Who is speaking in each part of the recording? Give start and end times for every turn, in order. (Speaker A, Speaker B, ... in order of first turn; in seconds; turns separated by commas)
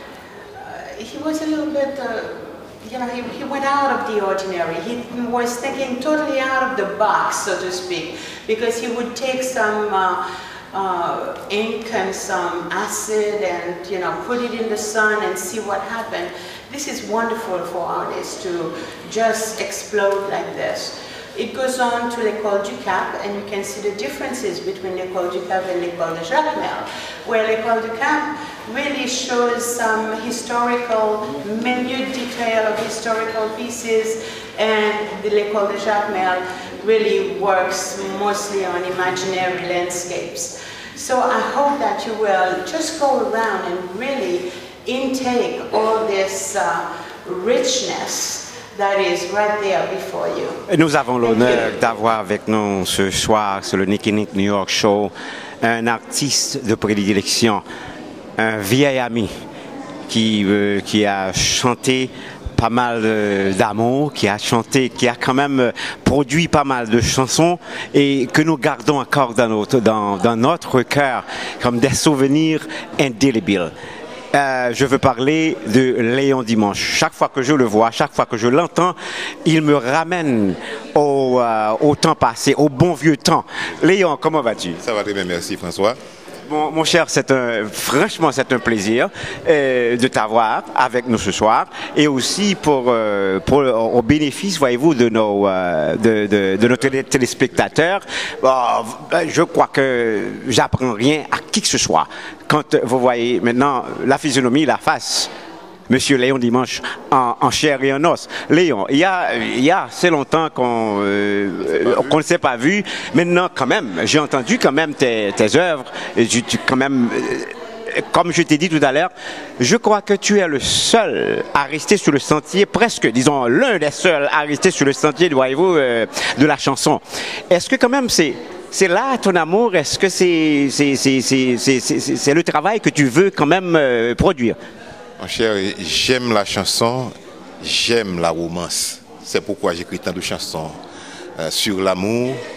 Speaker A: 0.6-50.6, Speaker B: 50.7-57.6, Speaker A: 51.3-51.6, Speaker B: 58.4-59.3, Speaker B: 60.1-73.7, Speaker B: 74.3-84.8, Speaker C: 84.8-86.0, Speaker B: 86.5-105.3, Speaker B: 105.9-134.6, Speaker C: 135.2-140.8, Speaker C: 141.4-142.4